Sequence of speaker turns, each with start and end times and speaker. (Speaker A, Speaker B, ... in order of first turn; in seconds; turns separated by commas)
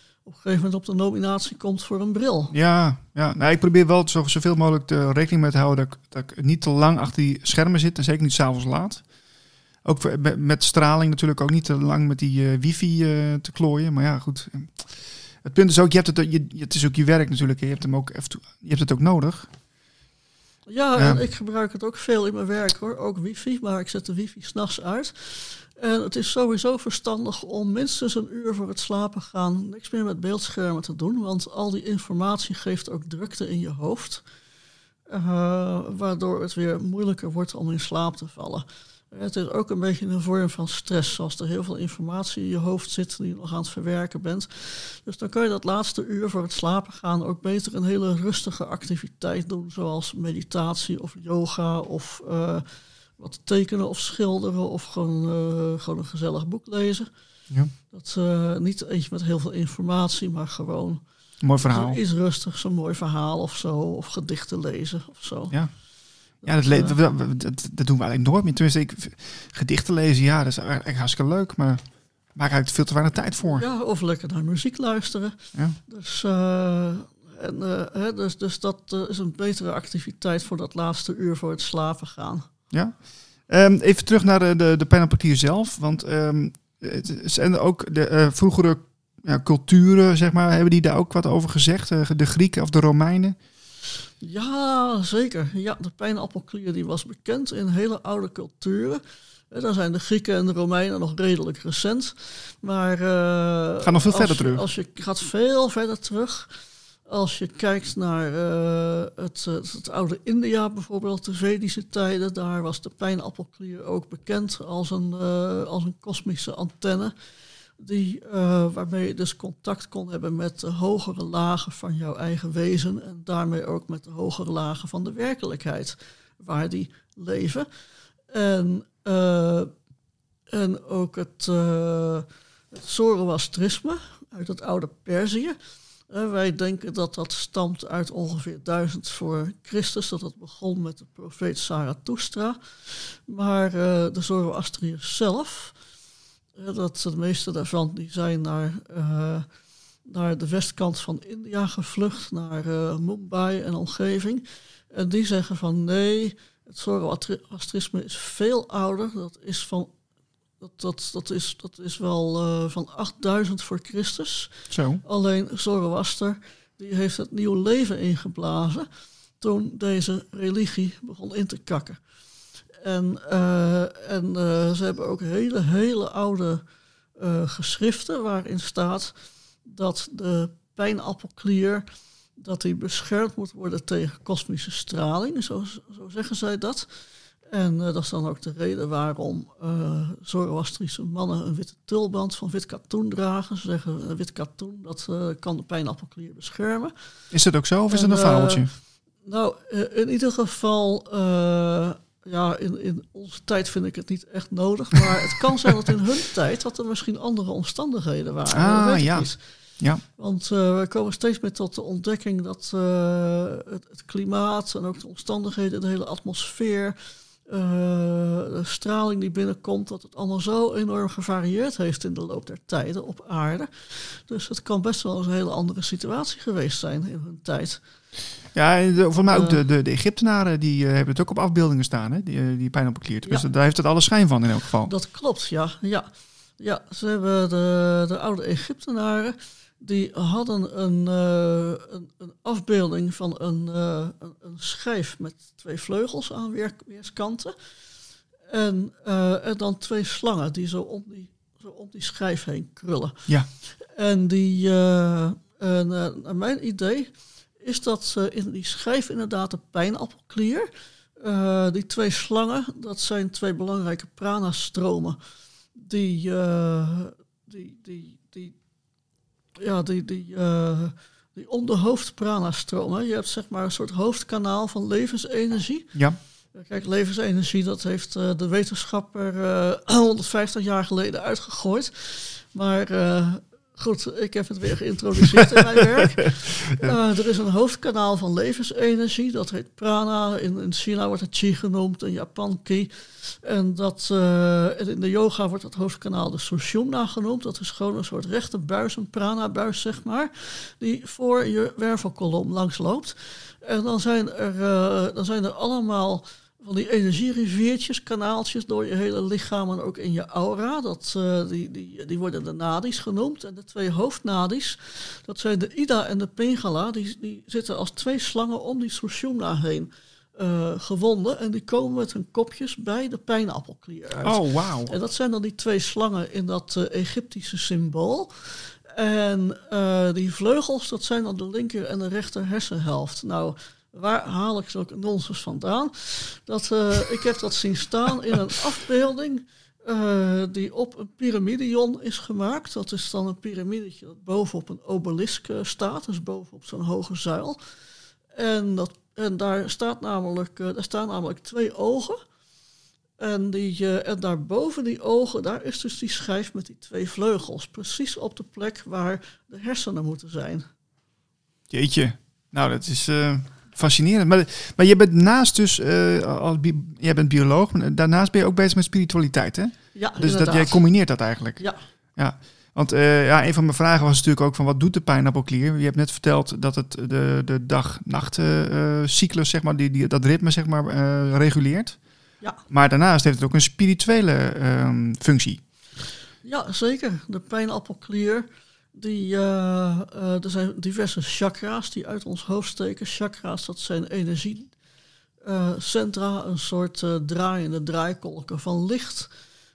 Speaker A: 0.2-2.5, Speaker B: 2.5-9.0, Speaker B: 9.8-14.9, Speaker B: 15.4-19.5, Speaker A: 20.7-34.2, Speaker A: 35.1-52.6, Speaker A: 53.2-57.1, Speaker A: 57.9-61.0, Speaker B: 61.4-62.0, Speaker A: 61.6-65.6, Speaker B: 66.4-71.8, Speaker A: 66.4-67.0, Speaker B: 72.3-73.6, Speaker A: 73.5-82.5, Speaker B: 82.7-93.3, Speaker A: 94.2-106.5, Speaker B: 103.8-104.6, Speaker A: 107.1-117.1, Speaker A: 117.8-127.7, Speaker A: 128.3-129.7, Speaker A: 130.5-135.6, Speaker A: 136.1-145.8, Speaker A: 146.6-149.4, Speaker A: 150.1-159.9, Speaker A: 160.6-164.5, Speaker B: 164.7-165.0, Speaker A: 165.0-168.9, Speaker A: 169.4-172.0, Speaker A: 172.8-176.6, Speaker A: 177.2-179.1, Speaker A: 179.6-181.8, Speaker A: 182.4-186.9, Speaker A: 187.5-196.9, Speaker B: 197.3-198.7, Speaker A: 197.9-198.7, Speaker A: 199.2-209.4, Speaker B: 208.5-210.0, Speaker A: 210.2-227.8, Speaker B: 228.5-234.9, Speaker A: 229.2-229.6, Speaker A: 234.8-247.5, Speaker A: 248.5-253.3, Speaker A: 253.8-265.2, Speaker A: 265.8-268.6, Speaker A: 269.6-276.0, Speaker A: 276.5-347.6, Speaker B: 324.2-324.9, Speaker A: 348.3-352.2, Speaker A: 353.2-360.6, Speaker B: 361.7-371.6, Speaker A: 369.9-370.8, Speaker B: 372.1-382.0, Speaker B: 382.7-385.6, Speaker A: 386.4-394.7, Speaker A: 395.4-399.3